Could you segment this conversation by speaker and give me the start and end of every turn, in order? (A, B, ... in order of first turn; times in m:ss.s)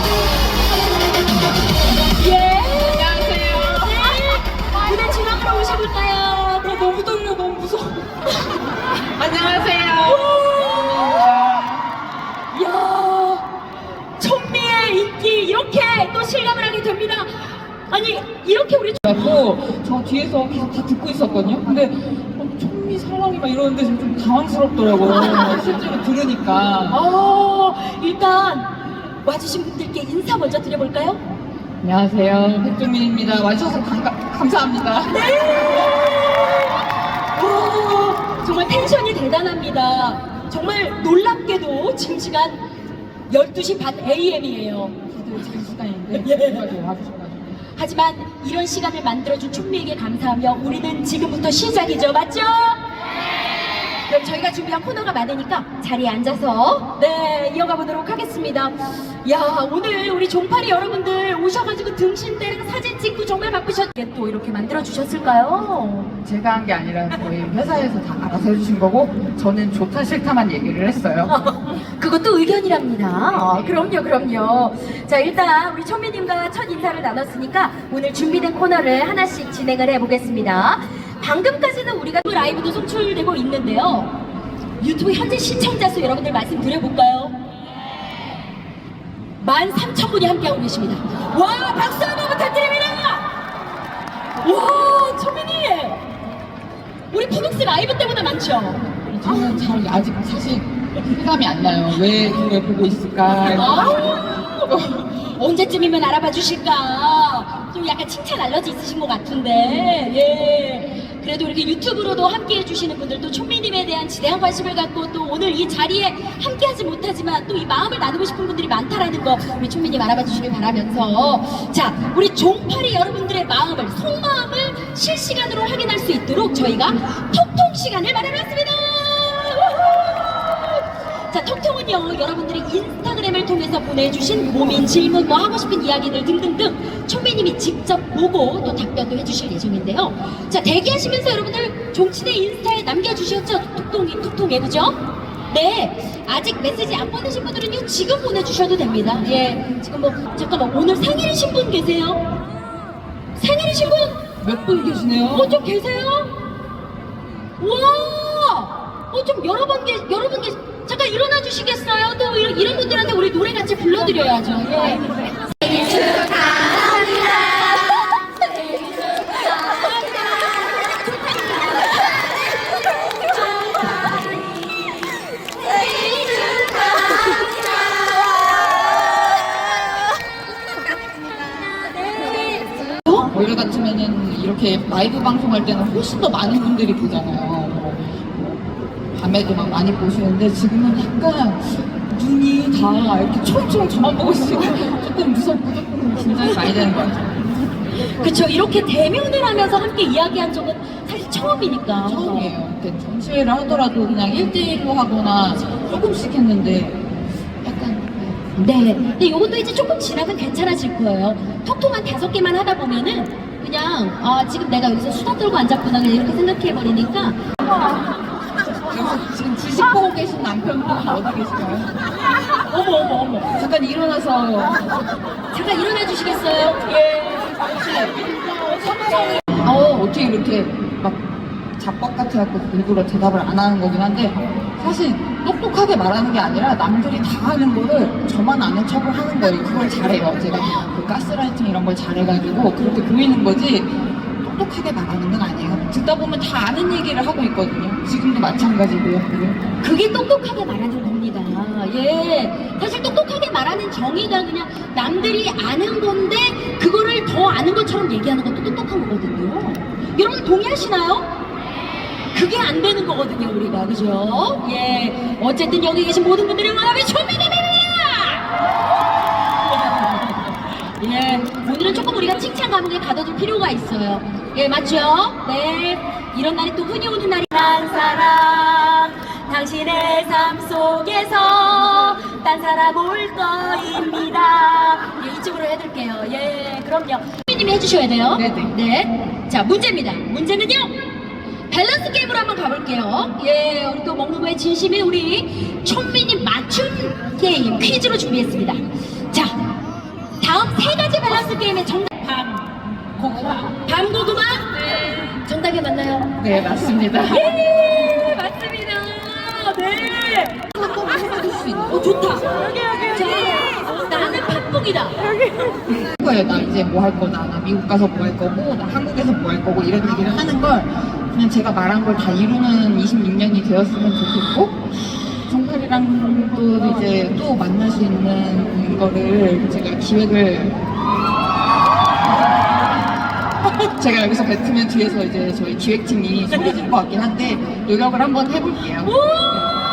0:02.1-0:08.1 A
0:02.8-0:04.2 B
0:09.0-0:11.8 B
0:10.0-0:11.4 A
0:12.5-0:13.5 A
0:14.2-0:19.0 A
0:19.0-0:27.0 B
0:25.0-0:25.6 A
0:26.9-0:31.2 A
0:31.8-0:35.3 B
0:35.1-0:42.6 A
0:43.3-0:45.0 A
0:45.1-0:47.6 B
0:46.2-0:46.6 A
0:47.8-0:52.8 A
0:54.1-1:06.1 A
1:06.2-1:11.3 B
1:11.3-1:24.2 A
1:24.8-1:27.4 A
1:29.4-1:33.4 A
1:34.4-1:36.0 A
1:37.1-1:38.9 A
1:39.0-1:45.0 B
1:43.4-2:32.2 A
2:33.3-2:34.3 A
2:34.4-2:35.5 B
2:35.3-2:36.4 A
2:37.6-2:46.7 A
2:49.8-2:52.1 A
2:56.2-2:57.4 A
3:01.0-3:03.3 A
3:03.3-3:08.6 B
3:09.1-3:17.4 B
3:17.9-3:22.5 A
3:22.0-3:27.0 B
3:27.6-3:28.4 B
3:28.4-3:37.4 A
3:38.8-3:41.9 B
3:42.6-3:43.5 A
3:43.5-3:44.8 B
3:45.5-3:49.5 A
3:49.6-4:09.6 B
4:09.8-4:21.3 A
4:22.3-4:28.5 A
4:29.6-4:51.0 A
4:48.3-4:48.7 B
4:51.7-4:59.7 A
5:00.4-5:06.3 A
5:06.4-5:07.5 B
5:07.3-5:10.7 A
5:10.8-5:12.1 B
5:11.9-5:15.2 A
5:15.9-5:24.8 B
5:25.4-5:30.8 B
5:33.7-5:39.2 B
5:39.0-5:39.8 A